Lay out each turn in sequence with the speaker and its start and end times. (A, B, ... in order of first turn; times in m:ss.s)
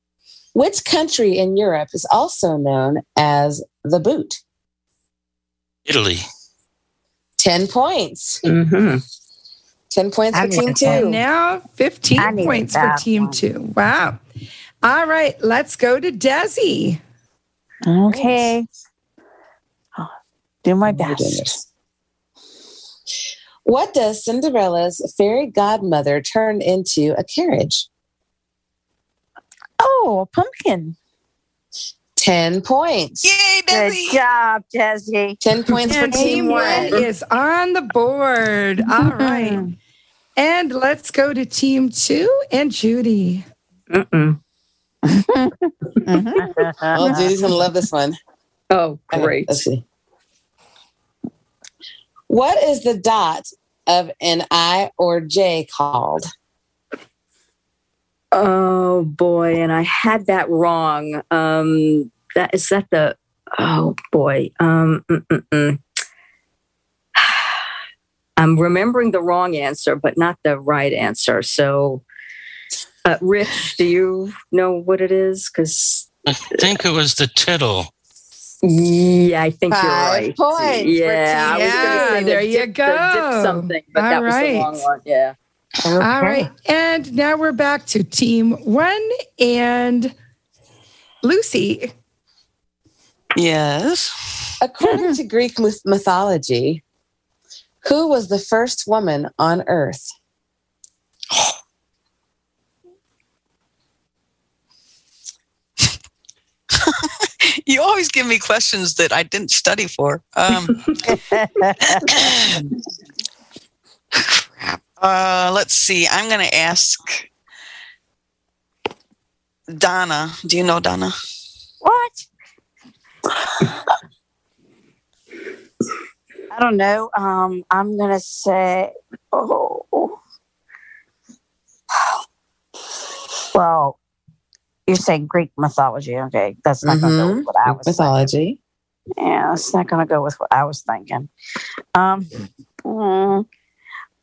0:00.5-0:04.4 A
0:05.9-0:06.3 B
0:07.4-0:08.4 A
0:08.4-0:09.0 C
0:09.9-0:11.2 A
0:10.3-0:11.2 D
0:10.9-0:14.2 E
0:12.2-0:13.4 D
0:14.8-0:17.0 E
0:17.9-0:18.7 D
0:18.1-0:18.5 A
0:20.6-0:21.6 D
0:20.8-0:21.6 A
0:23.6-0:27.9 A
0:29.8-0:31.0 D
0:32.2-0:33.3 A
0:33.3-0:34.1 F
0:33.7-0:37.0 D
0:35.4-0:37.0 A
0:35.9-0:39.6 E
0:39.0-0:39.6 D
0:40.4-0:43.5 E
0:43.9-0:44.4 C
0:46.2-0:47.2 D
0:46.9-0:48.2 A
0:48.7-0:49.5 C
0:49.1-0:49.8 A
0:52.3-0:56.3 A
0:58.3-1:05.8 C
1:07.2-1:07.6 C
1:08.4-1:12.0 C
1:13.1-1:16.1 C
1:16.4-1:17.9 B
1:18.6-1:25.3 C
1:19.7-1:22.4 A
1:21.5-1:24.8 E
1:25.9-1:26.4 A
1:26.0-1:30.1 E
1:31.2-1:31.9 E
1:33.4-1:34.1 F
1:34.6-1:36.8 A
1:37.8-1:40.1 A
1:47.6-1:51.2 F
1:51.3-1:52.0 D
1:52.0-1:52.6 F
1:54.6-1:57.2 F
1:59.8-2:01.2 F
2:01.8-2:02.2 D
2:06.5-2:10.2 D
2:13.5-2:14.0 D
2:14.9-2:18.3 D
2:16.8-2:18.6 A
2:19.2-2:21.3 D
2:22.0-2:22.3 D
2:22.8-2:23.4 D